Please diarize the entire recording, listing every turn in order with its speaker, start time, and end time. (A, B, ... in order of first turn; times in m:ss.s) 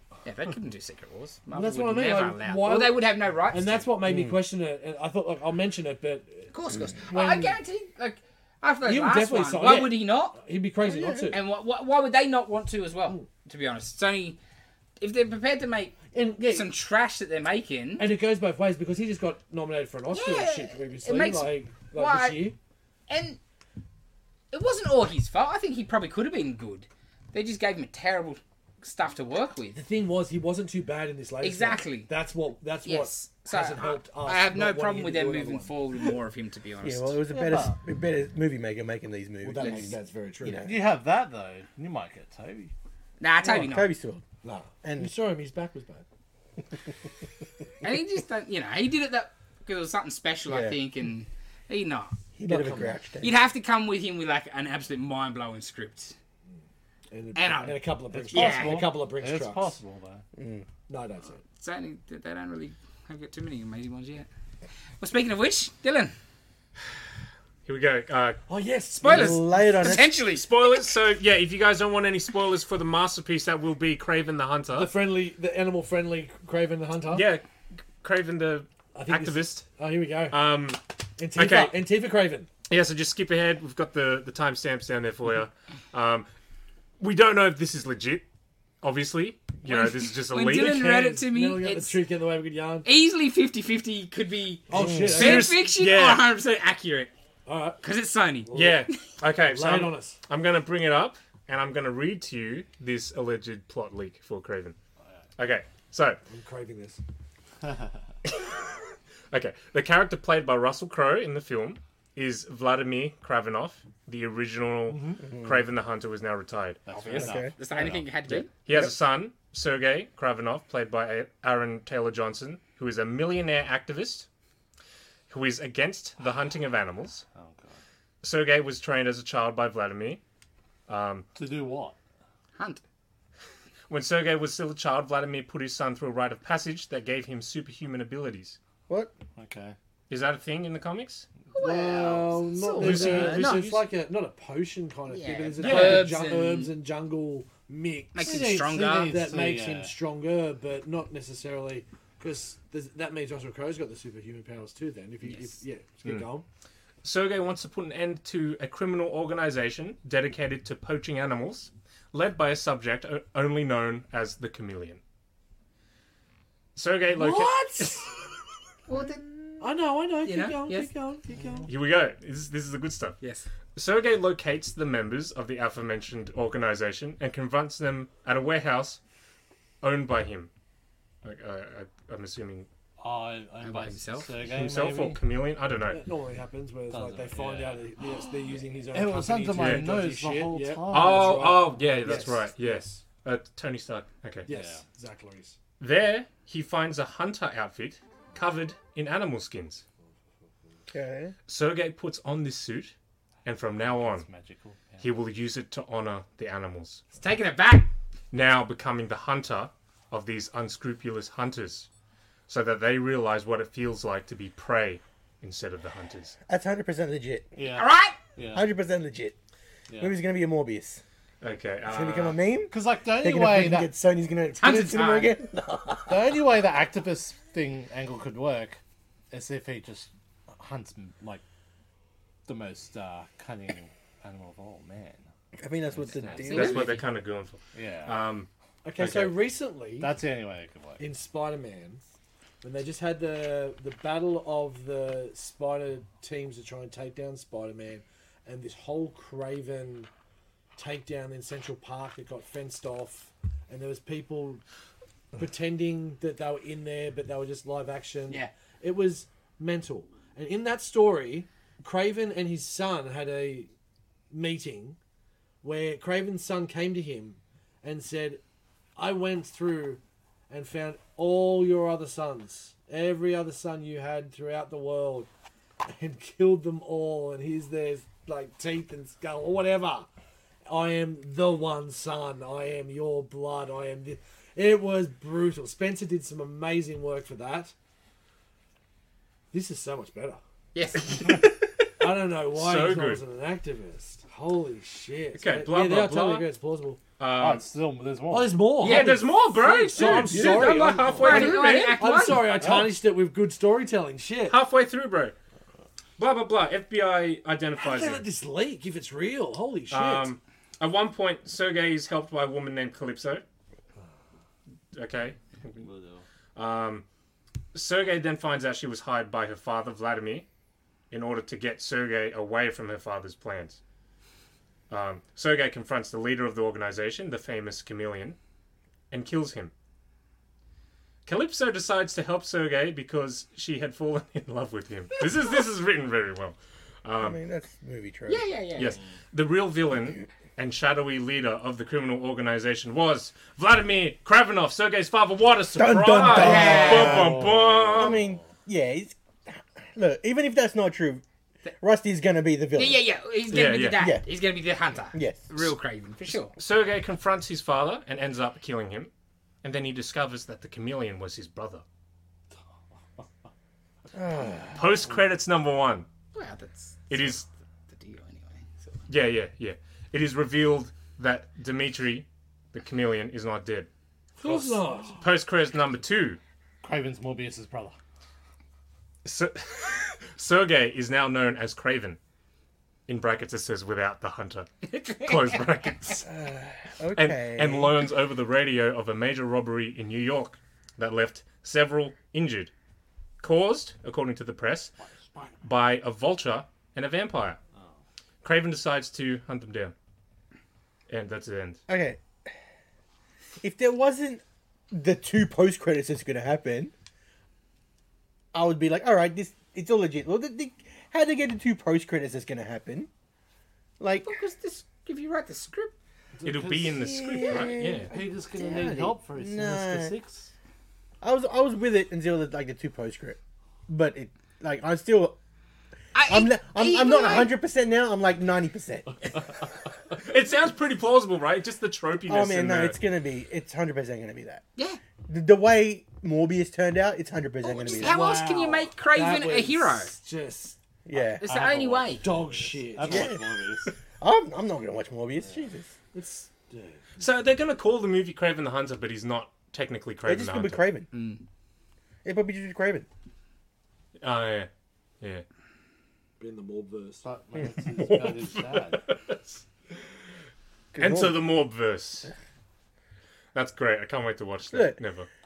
0:00.2-0:03.9 A
0:01.5-0:07.6 B
0:04.0-0:04.4 C
0:06.5-0:10.4 A
0:08.8-0:11.4 B
0:10.8-0:11.4 C
0:11.3-0:14.4 A
0:15.0-0:18.1 A
0:16.1-0:16.7 B
0:18.0-0:22.6 B
0:20.1-0:22.5 A
0:23.1-0:23.4 A
0:24.5-0:29.8 A
0:29.8-0:35.8 B
0:31.4-0:32.1 A
0:32.8-0:37.2 A
0:36.8-0:40.8 C
0:37.3-0:37.8 D
0:39.4-0:40.6 B
0:40.6-0:42.7 D
0:43.2-0:43.9 A
0:43.4-0:44.3 C
0:44.4-0:46.0 B
0:44.8-0:45.1 C
0:47.8-0:52.2 A
0:50.5-0:50.8 C
0:52.4-0:53.4 C
0:52.4-0:53.0 B
0:53.2-0:56.2 A
0:57.1-0:59.8 B
0:57.4-0:58.9 A
0:58.1-1:00.2 D
1:00.4-1:00.7 C
1:00.9-1:01.4 B
1:01.6-1:04.3 A
1:05.0-1:06.2 A
1:07.6-1:08.4 E
1:08.5-1:09.9 B
1:09.0-1:10.7 A
1:09.0-1:10.1 C
1:10.3-1:14.9 E
1:14.7-1:17.3 B
1:17.1-1:17.4 E
1:18.0-1:19.7 E
1:18.9-1:20.4 B
1:20.3-1:20.8 E
1:21.2-1:22.5 B
1:21.3-1:21.8 E
1:22.7-1:26.3 E
1:27.0-1:28.2 E
1:28.8-1:31.2 E
1:29.7-1:32.0 A
1:31.2-1:32.9 B
1:32.8-1:37.1 A
1:34.7-1:35.6 B
1:34.7-1:35.3 C
1:35.0-1:36.3 E
1:37.5-1:37.8 B
1:37.8-1:38.5 A
1:38.5-1:38.9 B
1:38.5-1:44.8 E
1:39.5-1:40.2 B
1:45.4-1:46.2 E
1:46.3-1:47.0 B
1:48.3-1:48.7 E
1:49.3-1:56.8 E
1:54.9-1:55.2 B
1:55.3-1:55.6 C
1:56.9-1:58.4 D
1:56.9-1:58.5 A
1:57.2-1:57.5 C
1:58.3-2:04.3 E
2:05.3-2:07.2 E
2:07.3-2:07.8 D
2:08.2-2:10.2 E
2:10.9-2:11.3 E
2:11.4-2:12.0 D
2:12.6-2:12.8 A
2:13.9-2:18.6 E
2:18.9-2:19.1 C
2:19.4-2:19.8 D
2:20.1-2:21.3 E
2:21.5-2:23.7 A
2:21.6-2:36.4 B
2:22.8-2:23.9 E
2:25.1-2:26.7 A
2:25.6-2:26.1 E
2:28.1-2:29.1 A
2:28.2-2:29.9 D
2:35.2-2:35.6 A
2:37.0-2:45.0 E
2:46.8-2:48.0 E
2:47.1-2:48.1 B
2:48.9-2:49.2 A
2:49.6-2:51.7 B
2:50.2-2:50.9 A
2:51.7-2:53.2 E
2:53.2-2:53.5 A
2:53.8-2:59.0 E
2:59.8-3:00.5 E
3:01.2-3:02.7 E
3:03.0-3:05.2 D
3:03.6-3:04.3 A
3:04.4-3:06.0 E
3:05.9-3:13.0 B
3:06.9-3:07.9 D
3:08.9-3:11.6 D
3:09.5-3:09.9 E
3:10.9-3:14.5 E
3:14.5-3:15.6 B
3:14.5-3:14.8 D
3:15.8-3:19.8 E
3:20.9-3:21.3 C
3:21.5-3:22.9 E
3:23.4-3:24.3 E
3:23.9-3:25.1 D
3:25.0-3:27.0 E
3:27.1-3:27.9 A
3:28.3-3:31.9 E
3:32.5-3:36.4 E
3:36.5-3:37.5 C
3:37.6-3:38.7 D
3:37.7-3:38.2 A
3:38.5-3:39.3 C
3:40.0-3:41.0 C
3:41.4-3:42.4 E
3:41.8-3:46.4 C
3:42.7-3:43.9 D
3:44.6-3:45.3 A
3:46.1-3:48.8 D
3:49.3-3:51.4 D
3:52.5-3:55.2 D
3:55.6-3:57.0 C
3:56.1-3:57.0 A
3:56.5-3:59.3 E
3:57.8-3:58.2 D
3:58.8-4:00.1 B
4:00.0-4:01.0 D
4:01.0-4:02.0 B
4:02.6-4:10.1 B
4:10.8-4:14.6 B
4:15.4-4:23.7 B
4:24.3-4:25.0 B
4:25.6-4:28.4 B
4:29.0-4:35.3 B
4:35.8-4:40.1 B
4:40.7-4:47.7 B
4:49.5-4:50.4 B
4:50.8-4:51.5 A
4:51.1-4:51.9 E
4:52.0-4:57.0 B
4:52.5-4:53.2 E
4:55.4-4:56.5 E
4:57.2-4:57.6 E
4:57.3-4:58.7 D
4:58.3-5:04.6 B
4:58.8-5:02.0 E
4:58.8-4:59.2 A
5:00.1-5:00.8 C
5:00.2-5:02.6 A
5:02.2-5:03.0 D
5:04.5-5:05.4 E
5:06.2-5:08.3 E
5:07.8-5:10.3 B
5:09.9-5:13.4 E
5:14.9-5:15.8 E
5:15.8-5:16.2 D
5:16.6-5:17.0 E
5:17.7-5:20.5 E
5:21.1-5:23.8 E
5:24.9-5:28.4 E
5:29.1-5:29.7 E
5:31.3-5:37.4 E
5:35.2-5:35.5 A
5:37.2-5:38.5 C
5:38.3-5:39.0 A
5:38.8-5:48.2 E
5:45.8-5:51.2 C
5:46.3-5:47.2 A
5:46.5-5:48.4 D
5:51.8-5:53.0 C
5:52.8-5:56.6 A
5:53.5-5:54.0 E
5:54.0-5:54.2 C
5:55.1-5:55.5 C
5:56.5-5:59.1 E
5:59.6-6:01.8 E
6:04.1-6:04.9 C
6:04.8-6:06.1 E
6:06.3-6:09.0 A
6:07.1-6:07.5 E
6:09.1-6:13.9 E
6:14.4-6:15.2 B
6:14.4-6:16.4 E
6:16.8-6:18.0 D
6:19.2-6:22.2 E
6:23.1-6:26.3 E
6:24.8-6:26.2 A
6:26.3-6:27.9 C
6:27.2-6:32.7 E
6:33.4-6:34.9 E
6:35.6-6:37.6 E
6:38.4-6:39.9 E
6:41.1-6:41.8 E
6:41.9-6:42.5 C
6:43.6-6:46.9 C
6:48.5-6:53.1 C
6:54.0-6:54.3 C
6:54.2-6:55.9 A
6:56.4-6:57.3 B
6:56.4-6:58.1 E
6:56.9-7:00.2 C
6:58.1-7:00.5 D
7:01.2-7:05.4 C
7:06.2-7:07.5 A
7:06.2-7:09.2 C
7:10.2-7:13.0 E
7:12.3-7:14.6 C
7:15.3-7:18.4 C
7:17.6-7:20.1 A
7:17.8-7:20.8 B
7:21.1-7:21.4 C
7:21.2-7:22.2 A
7:21.4-7:23.9 D
7:22.2-7:23.4 B
7:23.0-7:25.9 C
7:26.1-7:27.3 B
7:27.2-7:30.8 E
7:30.2-7:31.1 C
7:31.1-7:31.4 A
7:32.2-7:33.1 C
7:34.2-7:34.7 E
7:36.4-7:37.2 B
7:37.2-7:39.1 D
7:38.9-7:39.4 E
7:40.9-7:41.4 C
7:41.0-7:42.3 E
7:43.5-7:45.3 E
7:44.7-7:45.0 C